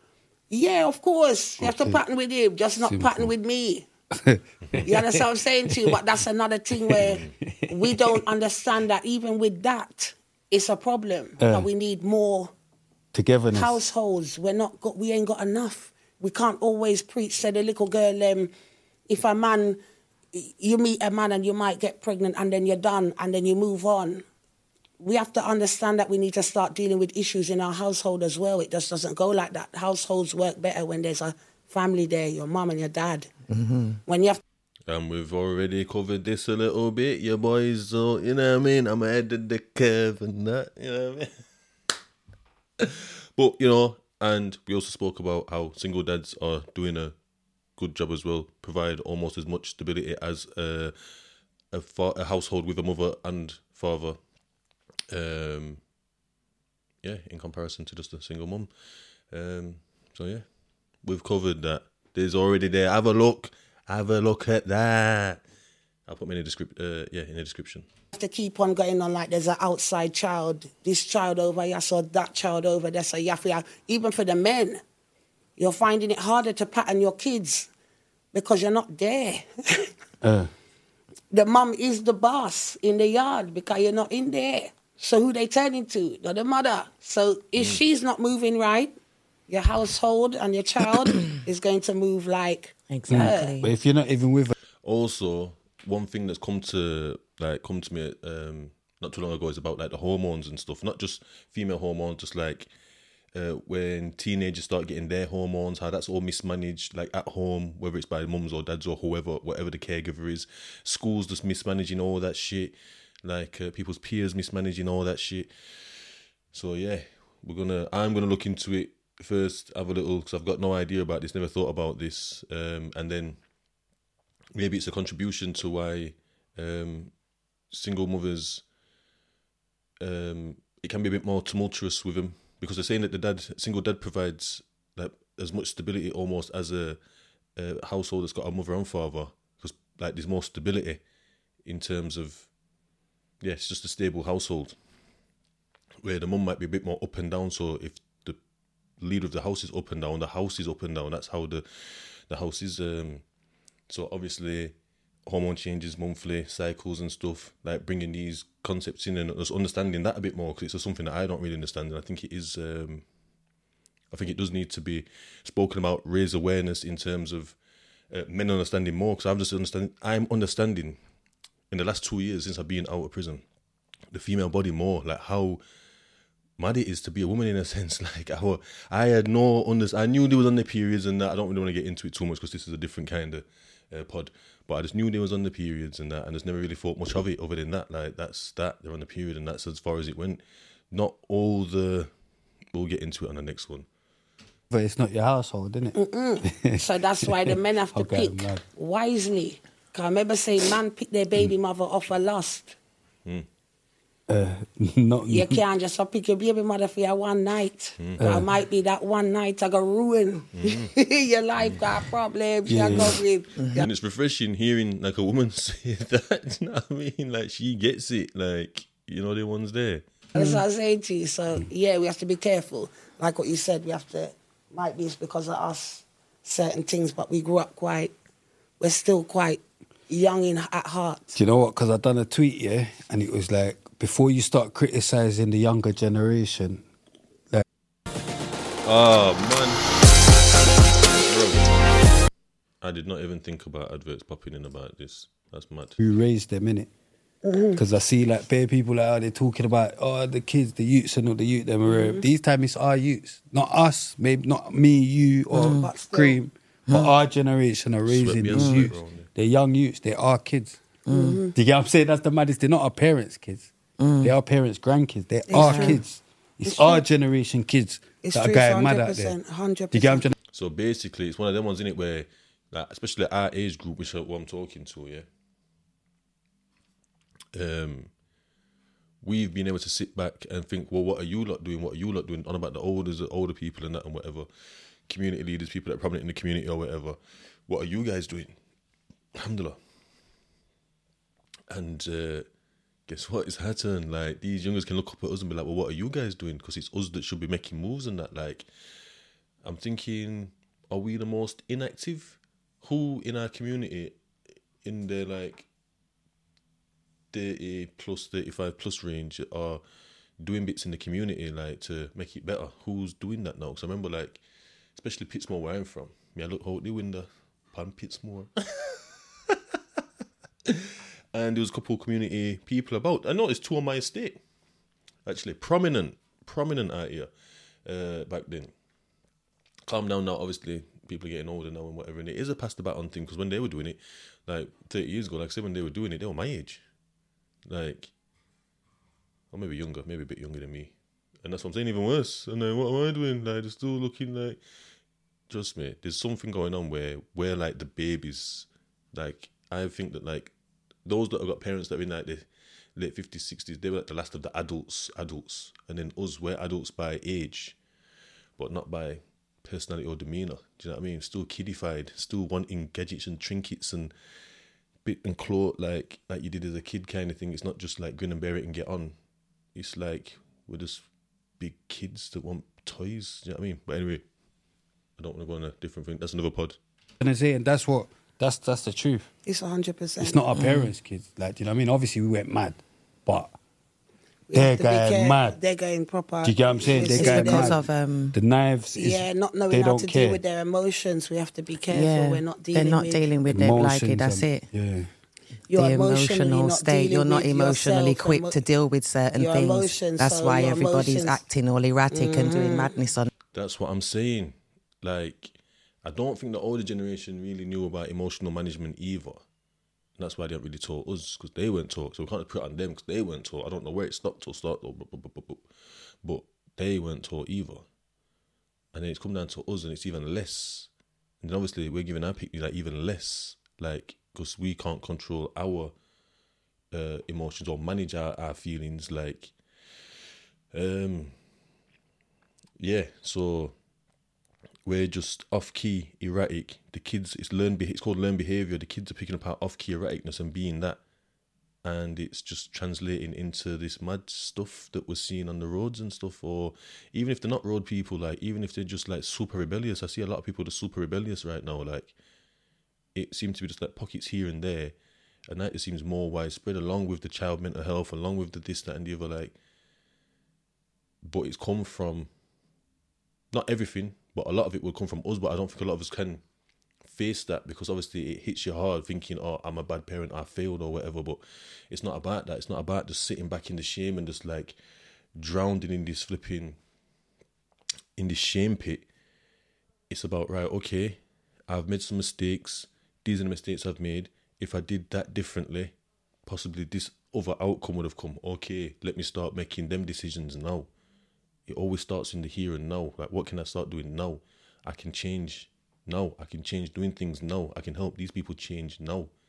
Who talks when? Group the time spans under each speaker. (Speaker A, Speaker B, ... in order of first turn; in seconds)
Speaker A: 0.5-3.9, 4.8-12.5, 13.5-18.5, 19.1-19.8, 20.3-24.2, 25.0-33.3, 34.1-34.4, 68.1-74.8, 75.6-77.7, 78.3-79.9, 81.3-89.0, 89.5-93.6, 195.9-202.8, 205.3-213.9, 220.3-228.1, 228.8-231.4, 247.4-247.8, 251.9-252.2, 255.7-256.4, 261.1-261.6, 265.5-266.0, 266.6-267.0, 268.2-270.3, 379.5-380.4, 384.5-387.7, 388.9-393.2, 395.7-398.6, 399.4-401.4, 402.1-402.9
Speaker B: 1.6-2.0, 2.9-3.3, 4.2-5.2, 6.9-8.2, 11.4-11.7, 13.1-13.8, 80.2-80.5, 93.1-94.5, 194.7-198.6, 204.3-205.6, 208.2-208.5, 212.7-213.2, 231.3-236.8, 246.0-246.9, 247.8-260.8, 261.6-269.4, 269.9-270.3, 377.2-379.3, 380.2-383.5, 384.5-385.6, 386.4-390.4, 393.5-395.1
Speaker C: 7.0-7.3, 34.9-41.3, 42.8-47.2, 47.8-51.0, 51.7-54.2, 55.1-55.8, 57.0-58.7, 59.3-60.4, 61.0-65.4, 66.1-67.9, 94.8-102.7, 103.3-123.4, 124.5-127.1, 127.7-128.6, 130.0-137.0, 137.6-141.0, 141.7-142.5, 143.4-144.8, 146.0-148.4, 149.0-153.2, 153.9-154.8, 155.3-163.0, 164.1-167.6, 168.1-171.0, 171.7-173.4, 174.1-175.6, 176.6-192.1, 192.7-193.9, 208.0-208.3, 210.5-210.9, 213.7-220.1, 238.8-239.9, 240.4-241.9, 242.8-246.0, 258.1-259.3, 270.5-275.3, 277.5-278.1, 279.2-284.5, 285.1-288.6, 289.4-289.8, 291.7-292.5, 293.1-298.7, 299.6-304.2, 304.8-305.7, 307.3-309.8, 310.4-314.4, 315.0-320.0, 320.7-324.4, 325.2-327.3, 327.9-328.7, 329.9-336.8, 337.7-338.1, 339.5-344.6, 345.5-350.5, 351.1-357.8, 358.6-364.1, 365.1-369.1, 369.7-371.1, 371.6-374.2, 375.2-376.8, 403.5-409.4, 410.2-415.6, 416.2-417.9, 418.9-425.9, 426.9-429.5, 430.7-431.4, 432.8-433.8, 434.9-441.0, 441.8-452.1, 453.1-454.9, 455.5-459.5, 461.2-462.3, 463.5-466.4, 467.1-474.8, 475.4-476.8, 478.2-479.1, 480.1-485.9, 486.4-490.9, 491.7-499.3
Speaker D: 33.5-34.0, 92.9-93.7, 220.3-220.6, 255.5-255.9, 256.9-257.1, 258.5-258.9, 261.1-261.4, 264.0-264.3, 265.6-266.0, 380.5-380.9, 387.1-388.4, 391.9-394.7, 395.7-403.3